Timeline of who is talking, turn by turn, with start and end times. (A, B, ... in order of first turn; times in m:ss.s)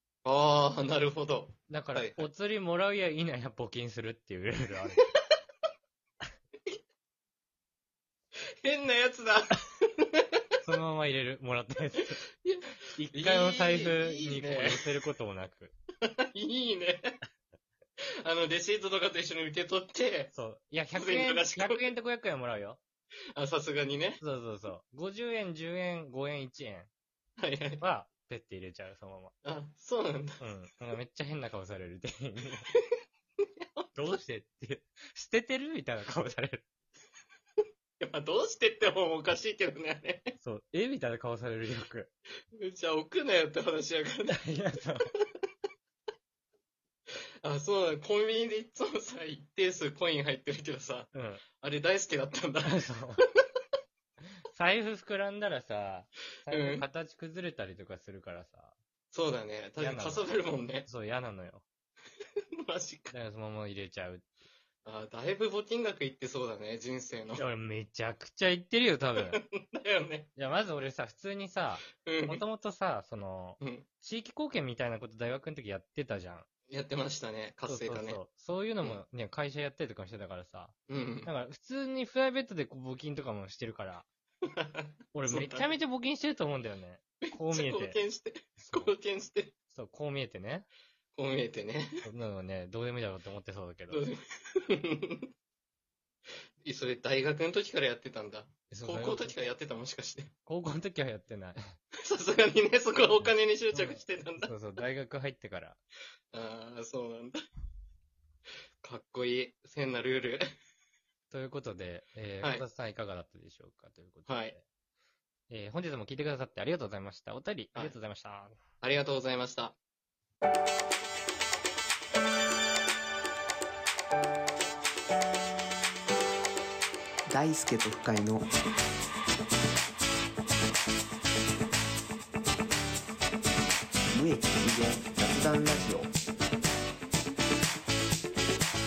0:00.2-0:02.3 A
0:01.7-0:05.0 B
0:08.6-0:10.3 A
0:10.6-0:12.2 B
0:12.4-0:14.9 A
0:13.0-0:15.7 B
0:16.0-0:17.2 A
0:18.2-0:20.3 A
0:20.3-0:22.8 B
0:20.9-0:21.9 A
0:23.4-0:24.2 A
0:24.2-0:26.9 B
0:27.4-0:27.8 A
0:27.8-0:29.3 B
0:29.4-0:30.4 A
0:30.4-0:32.7 B
0:33.4-0:34.2 A
0:34.0-0:36.7 B
0:38.0-0:40.4 A
0:40.4-0:42.1 B
0:42.6-0:44.4 A
0:44.3-0:45.1 B
0:47.1-0:53.3 A
0:51.1-0:51.4 B
0:52.6-0:53.2 B
0:54.5-0:58.8 B
0:56.5-0:56.8 A
0:59.1-1:00.9 A
0:59.8-1:00.3 B
1:00.9-1:01.6 B
1:02.6-1:03.1 A
1:03.1-1:04.3 B
1:04.8-1:07.4 A
1:07.4-1:09.4 B
1:09.2-1:10.3 A
1:10.4-1:16.5 B
1:12.0-1:12.4 A
1:13.6-1:13.9 A
1:16.7-1:18.2 A
1:17.7-1:24.1 B
1:20.9-1:21.3 A
1:24.5-1:25.7 A
1:25.1-1:28.0 B
1:27.3-1:29.5 A
1:28.6-1:29.0 B
1:29.7-1:30.7 B
1:31.1-1:32.1 A
1:32.0-1:34.0 B
1:33.9-1:35.3 A
1:36.6-1:40.3 A
1:38.7-1:39.5 B
1:40.5-1:41.8 B
1:42.0-1:44.5 A
1:43.2-1:45.8 B
1:46.3-1:47.4 A
1:48.8-1:50.5 A
1:51.3-1:54.6 B
1:54.3-1:54.6 A
1:55.5-1:58.6 B
1:58.8-1:59.8 A
2:07.3-2:08.5 C
2:14.1-2:16.1 C